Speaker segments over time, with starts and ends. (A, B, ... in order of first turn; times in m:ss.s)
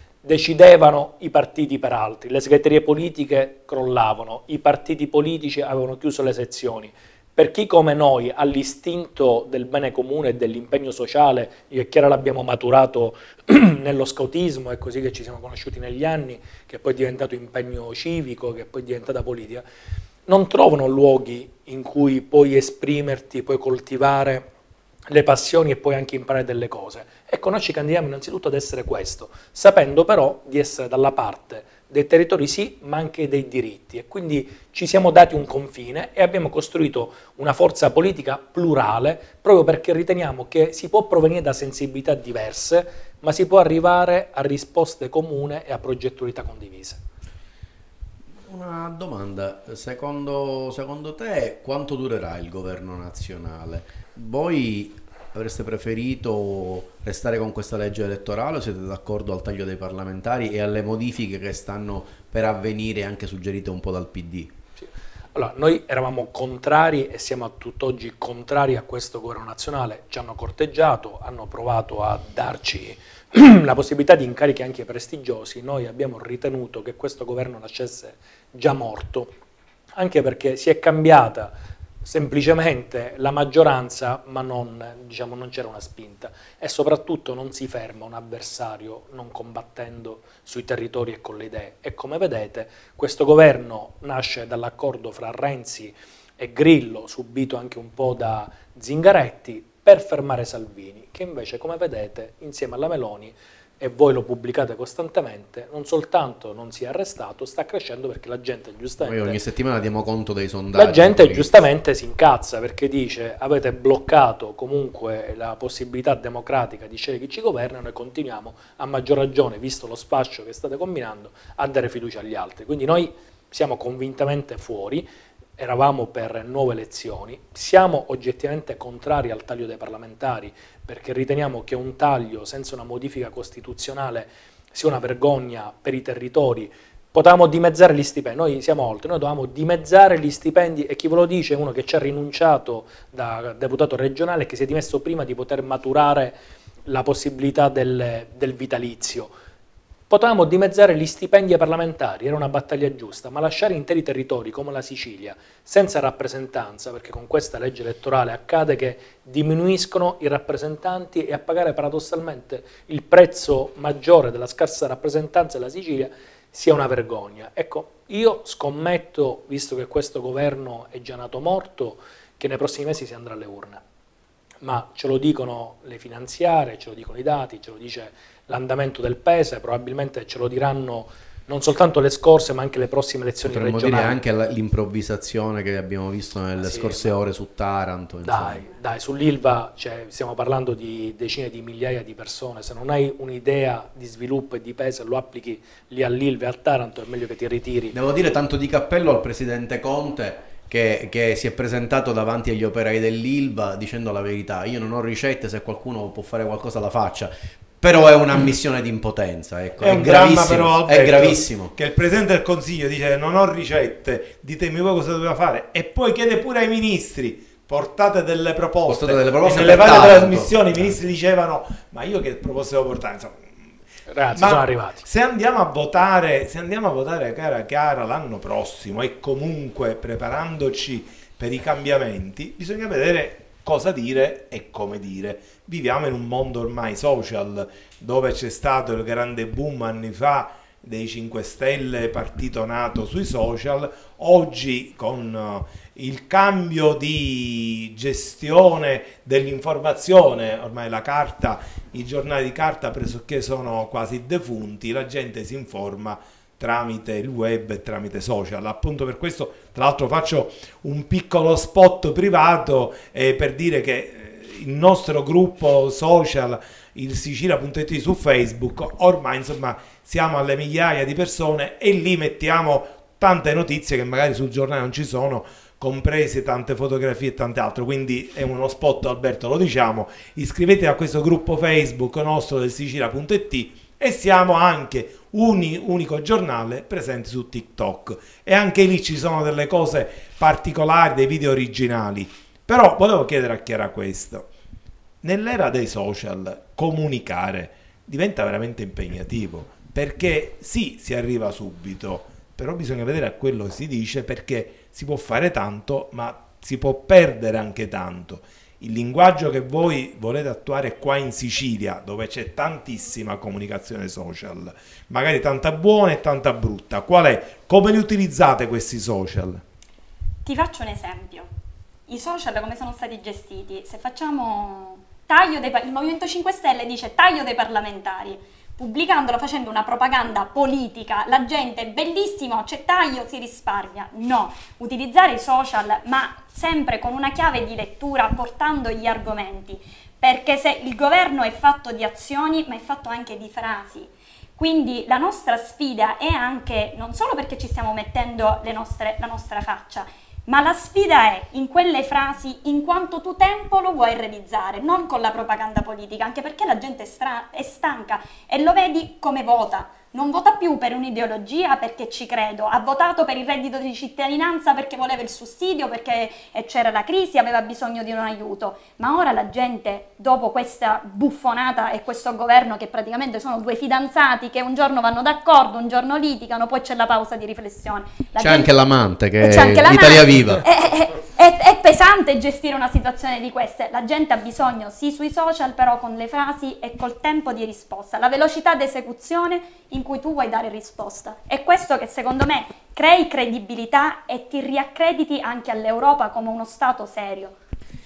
0:00.2-0:19.6 A
0:20.3-0:24.5 A
0:25.1-0:47.0 A
0:48.5-1:04.5 B
1:04.8-1:19.3 A
1:20.0-1:21.5 A
1:22.0-1:49.4 A
1:49.0-1:51.5 B
1:50.8-2:29.3 A
2:30.1-2:53.8 A
2:54.6-3:04.2 A
3:03.4-3:08.7 B
3:06.6-3:07.2 A
3:08.2-3:18.0 A
3:17.9-3:31.7 B
3:29.8-3:43.5 C
3:38.9-3:40.9 B
3:44.1-3:45.1 A
3:44.3-4:54.5 C
4:55.2-5:19.6 C
5:20.4-5:21.5 D
5:22.1-6:18.7 D
6:18.4-6:20.6 B
6:19.4-6:37.6 D